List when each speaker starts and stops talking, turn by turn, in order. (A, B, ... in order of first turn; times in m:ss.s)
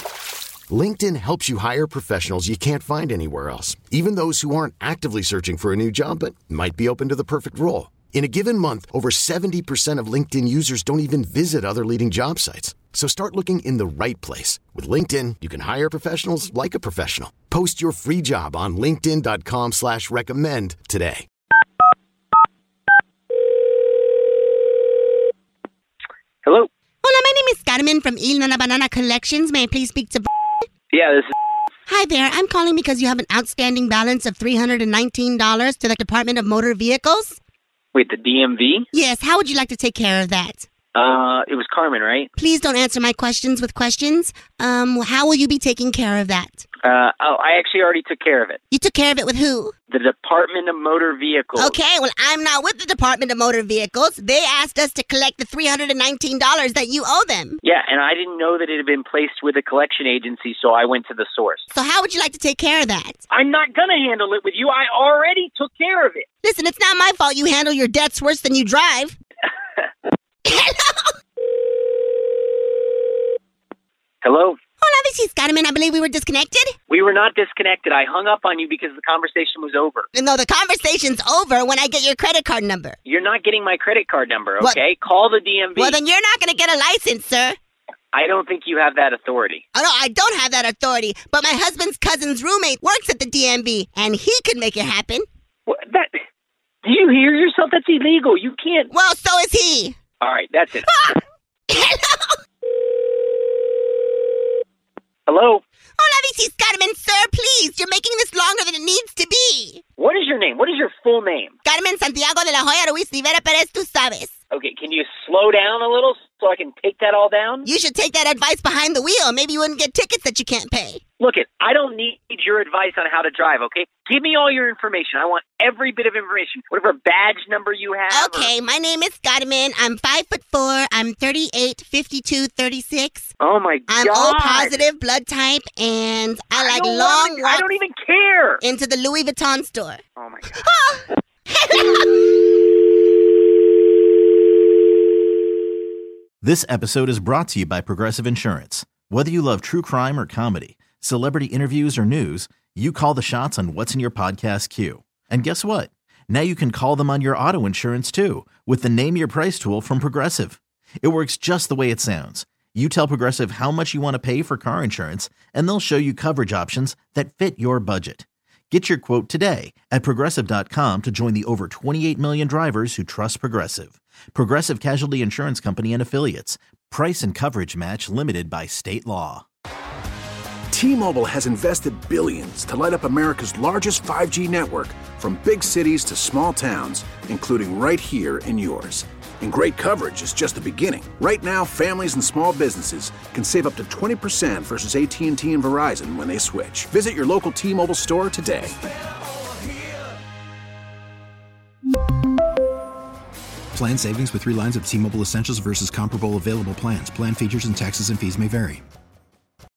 0:00.7-0:21.2 A
0:26.4-0:26.7 B
0:27.0-0:30.3 C
0:30.9-0:31.3 B
0:31.9-0:37.4 C
0:37.9-0:38.9 B
0:38.9-0:40.6 C
0:40.9-0:42.3 B
0:42.4-0:46.6 C
0:46.8-0:48.6 B
0:48.7-0:49.7 C
0:49.9-0:51.8 B
0:51.6-0:57.6 C
0:57.6-1:01.6 B
1:01.7-1:03.2 C
1:03.3-1:06.2 B
1:06.4-1:09.2 C
1:10.4-1:11.1 C
1:14.2-1:14.6 B
1:14.8-1:16.7 C
1:16.9-1:20.1 B
1:20.1-1:23.0 C
1:23.0-1:26.0 B
1:25.8-1:27.6 C
1:28.1-1:29.6 B
1:29.7-1:35.2 C
1:35.7-1:36.2 B
1:36.8-1:38.9 B
1:38.9-1:40.0 C
1:40.2-1:41.0 B
1:41.7-1:42.4 C
1:45.3-1:45.6 B
1:46.0-1:49.8 C
1:50.0-1:51.5 B
1:51.6-1:54.3 C
1:54.5-1:57.6 B
1:57.6-2:01.0 C
2:01.2-2:08.5 B
2:08.1-2:13.3 C
2:13.4-2:14.8 B
2:13.9-2:17.7 C
2:16.5-2:18.6 B
2:18.6-2:20.0 C
2:20.2-2:20.6 B
2:20.6-2:22.3 C
2:26.4-2:59.4 D
3:00.7-3:18.8 E
3:23.7-3:28.8 F